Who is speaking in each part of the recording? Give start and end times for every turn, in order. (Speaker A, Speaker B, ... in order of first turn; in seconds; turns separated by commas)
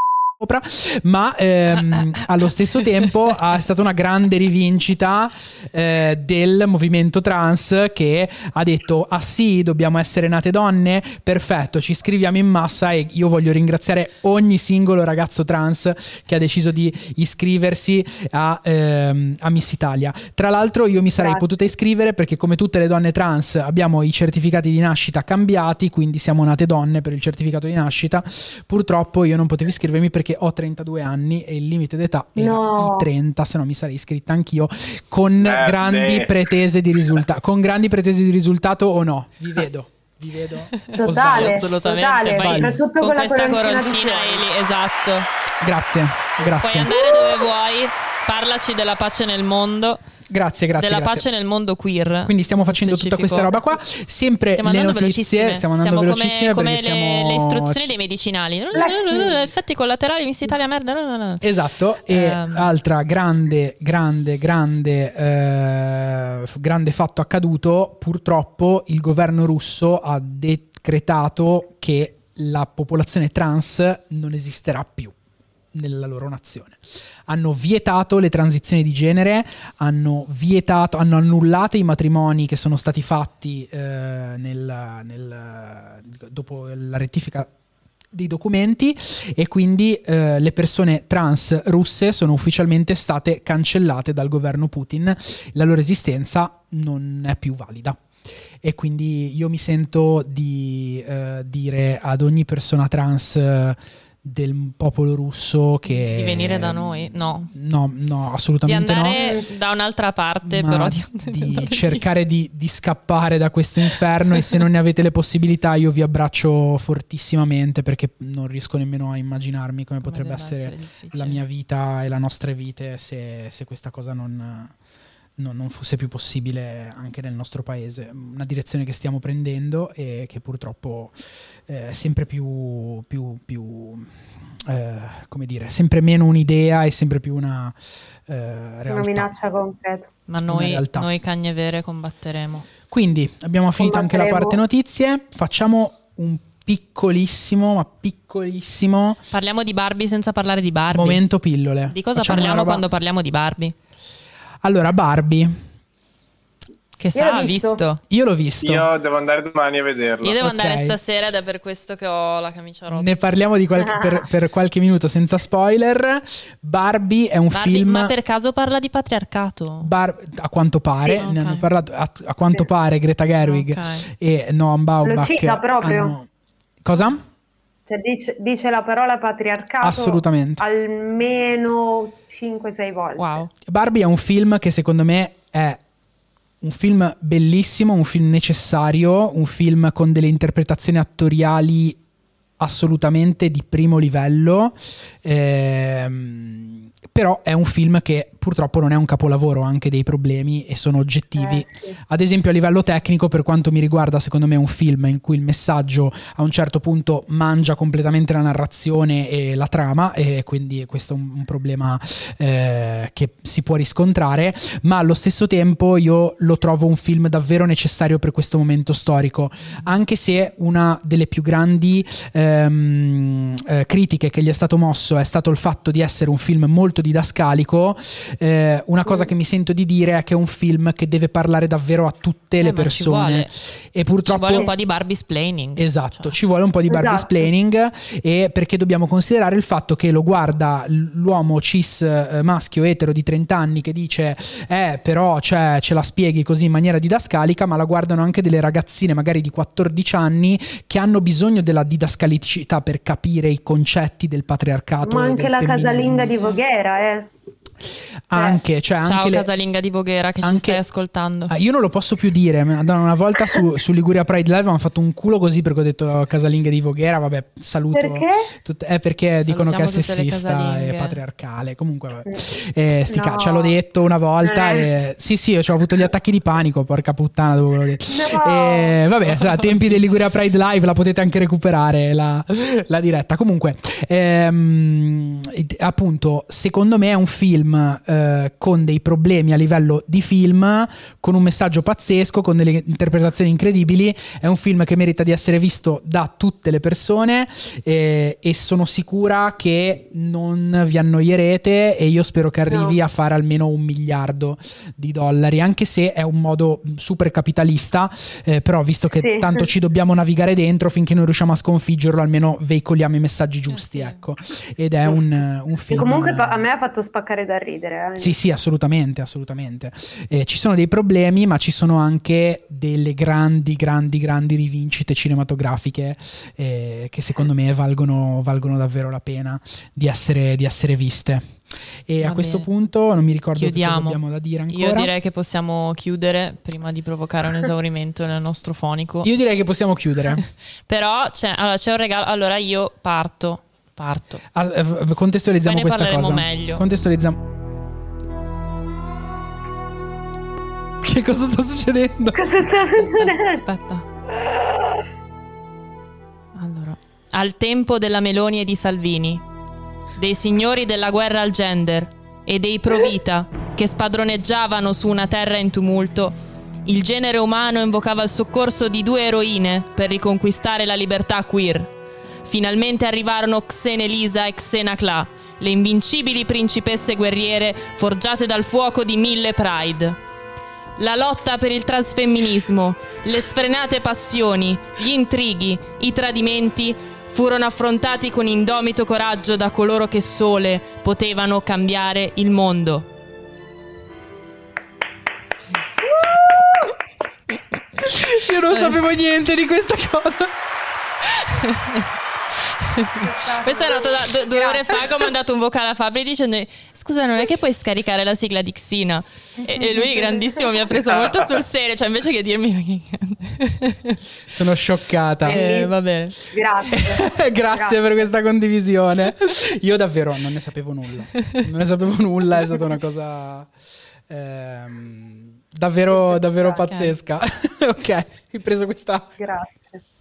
Speaker A: 0.4-41.7, Speaker B: 21.2-21.5, Speaker B: 32.4-33.1, Speaker C: 35.4-36.5, Speaker D: 40.8-45.3, Speaker B: 40.9-44.5, Speaker A: 42.3-42.8, Speaker A: 45.6-47.1, Speaker D: 46.6-50.0, Speaker A: 50.3-51.3, Speaker D: 50.8-53.5, Speaker A: 52.2-57.9, Speaker D: 54.6-61.5, Speaker B: 58.7-59.5, Speaker A: 61.4-75.1, Speaker D: 62.1-62.7, Speaker A: 75.7-87.5, Speaker A: 88.1-98.0, Speaker A: 98.6-109.2, Speaker D: 105.9-107.5, Speaker D: 108.7-112.0, Speaker B: 109.2-109.5, Speaker A: 110.5-124.7, Speaker D: 120.0-121.4, Speaker A: 125.4-139.3, Speaker B: 138.9-140.1, Speaker D: 140.3-142.7, Speaker A: 140.5-141.1, Speaker A: 142.9-149.2, Speaker B: 143.8-144.6, Speaker D: 149.3-151.2, Speaker A: 150.9-152.8, Speaker D: 151.9-153.8, Speaker A: 154.6-155.6, Speaker D: 157.0-158.0, Speaker B: 157.2-157.8, Speaker A: 158.1-158.9, Speaker C: 158.6-160.4, Speaker D: 160.2-163.1, Speaker A: 160.4-161.0, Speaker A: 162.9-168.1, Speaker B: 163.8-164.2, Speaker D: 167.5-169.9, Speaker A: 169.8-176.3, Speaker D: 171.2-171.7, Speaker D: 173.4-174.1, Speaker B: 175.0-176.2, Speaker A: 176.8-177.2, Speaker B: 177.9-183.4, Speaker A: 179.8-180.6, Speaker D: 183.2-183.5, Speaker A: 183.7-185.8, Speaker A: 186.6-192.0, Speaker A: 192.6-234.7, Speaker B: 201.4-202.0, Speaker D: 232.6-233.5, Speaker D: 234.2-236.3, Speaker A: 235.8-256.4, Speaker B: 236.9-237.5, Speaker B: 255.0-257.3, Speaker D: 256.3-256.6, Speaker A: 258.3-259.5, Speaker B: 258.3-258.6, Speaker D: 259.0-261.5, Speaker A: 260.4-260.8, Speaker A: 261.5-316.6, Speaker B: 267.9-268.5, Speaker D: 269.5-271.2, Speaker B: 273.1-273.8, Speaker B: 274.4-274.9, Speaker B: 278.1-279.0, Speaker B: 302.7-303.0, Speaker B: 309.1-309.7, Speaker D: 313.7-314.2, Speaker B: 315.9-318.4, Speaker A: 318.2-335.1, Speaker D: 332.2-332.7, Speaker D: 333.6-339.3, Speaker A: 339.2-340.4, Speaker D: 340.4-344.4, Speaker A: 344.6-347.4, Speaker D: 345.6-346.8, Speaker A: 351.0-352.5, Speaker B: 352.3-353.6, Speaker D: 352.8-354.1, Speaker D: 356.6-359.4, Speaker D: 360.2-371.9, Speaker D: 372.4-380.2, Speaker D: 381.0-393.1, Speaker A: 398.0-400.5, Speaker D: 398.6-399.0, Speaker D: 401.2-402.1, Speaker D: 402.7-414.2, Speaker B: 403.1-405.1, Speaker B: 409.8-410.2, Speaker A: 414.5-415.6, Speaker D: 415.4-416.4, Speaker B: 415.4-418.2, Speaker A: 416.9-423.7, Speaker D: 421.4-421.6, Speaker A: 424.3-429.4, Speaker B: 426.1-426.9, Speaker D: 426.9-427.1, Speaker B: 429.4-430.0